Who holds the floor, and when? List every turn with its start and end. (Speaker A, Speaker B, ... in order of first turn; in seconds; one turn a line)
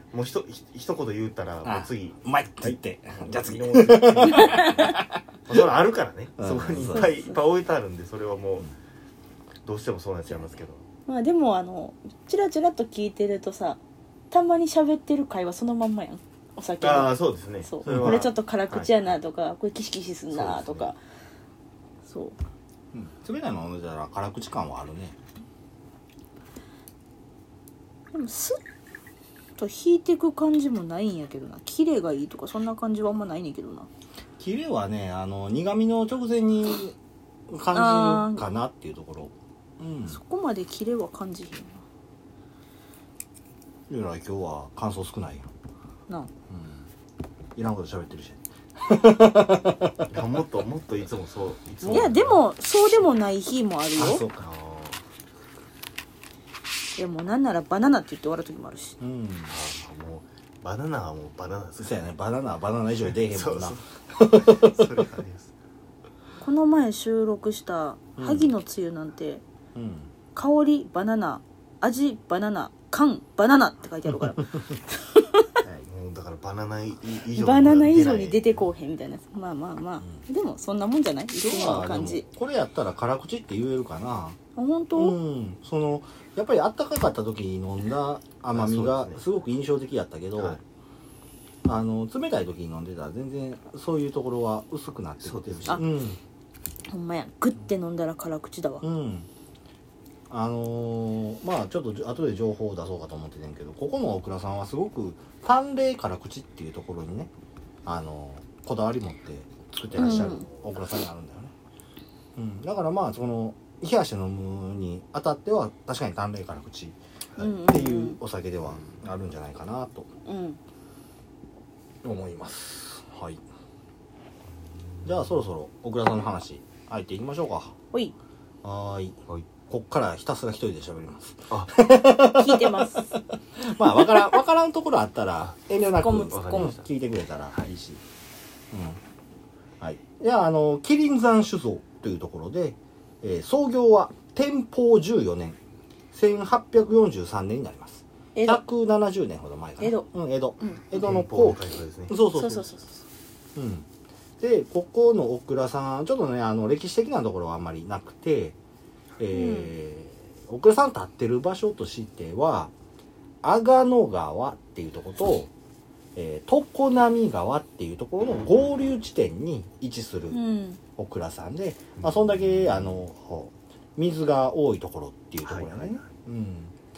Speaker A: 0.1-8.7
Speaker B: 1.6-5.2
Speaker C: 4.3-5.0
Speaker B: 6.4-7.1
Speaker C: 6.9-7.4
Speaker A: 9.6-10.8
Speaker C: 11.1-13.8
Speaker C: 14.3-21.0
Speaker A: 16.8-18.3
Speaker B: 17.9-18.9
Speaker A: 20.3-20.9
Speaker C: 22.1-22.4
Speaker B: 22.9-25.1
Speaker C: 28.1-28.6
Speaker C: 29.6-33.9
Speaker B: 34.4-37.0
Speaker B: 37.5-40.2
Speaker C: 37.7-38.4
Speaker C: 40.1-41.8
Speaker B: 43.9-45.5
Speaker B: 46.5-46.8
Speaker B: 47.5-50.1
Speaker A: 50.1-52.4
Speaker C: 51.8-54.2
Speaker B: 54.0-54.5
Speaker A: 54.4-55.0
Speaker C: 57.0-59.0
Speaker B: 59.0-59.5
Speaker A: 59.5-62.1
Speaker B: 61.8-64.8
Speaker A: 63.1-65.5
Speaker C: 66.4-69.4
Speaker B: 68.2-68.5
Speaker B: 69.7-70.1
Speaker C: 70.3-75.6
Speaker A: 75.8-78.7
Speaker C: 77.3-82.2
Speaker B: 81.4-84.4
Speaker C: 84.5-85.2
Speaker B: 84.9-90.6
Speaker A: 88.5-89.2
Speaker B: 91.6-96.2
Speaker A: 95.2-95.8
Speaker C: 96.9-98.8
Speaker B: 98.8-99.3
Speaker B: 100.3-107.3
Speaker B: 107.8-111.5
Speaker C: 110.0-110.4
Speaker B: 112.4-117.0
Speaker C: 117.4-118.2
Speaker B: 117.6-120.1
Speaker C: 120.2-120.6
Speaker B: 122.0-123.4
Speaker A: 124.9-125.3
Speaker B: 125.0-127.7
Speaker B: 128.6-138.0
Speaker C: 132.2-133.2
Speaker C: 136.0-136.8
Speaker A: 136.2-136.9
Speaker B: 138.7-139.0
Speaker B: 139.8-145.6
Speaker B: 146.1-152.7
Speaker C: 148.3-148.6
Speaker C: 149.8-150.1
Speaker A: 150.9-152.2
Speaker C: 152.3-153.0
Speaker B: 153.6-153.8
Speaker B: 154.4-158.6
Speaker B: 159.2-162.7
Speaker C: 159.3-159.7
Speaker B: 163.4-165.5
Speaker B: 166.1-170.4
Speaker C: 170.3-170.8
Speaker B: 170.9-176.7
Speaker A: 172.0-172.7
Speaker A: 175.4-176.1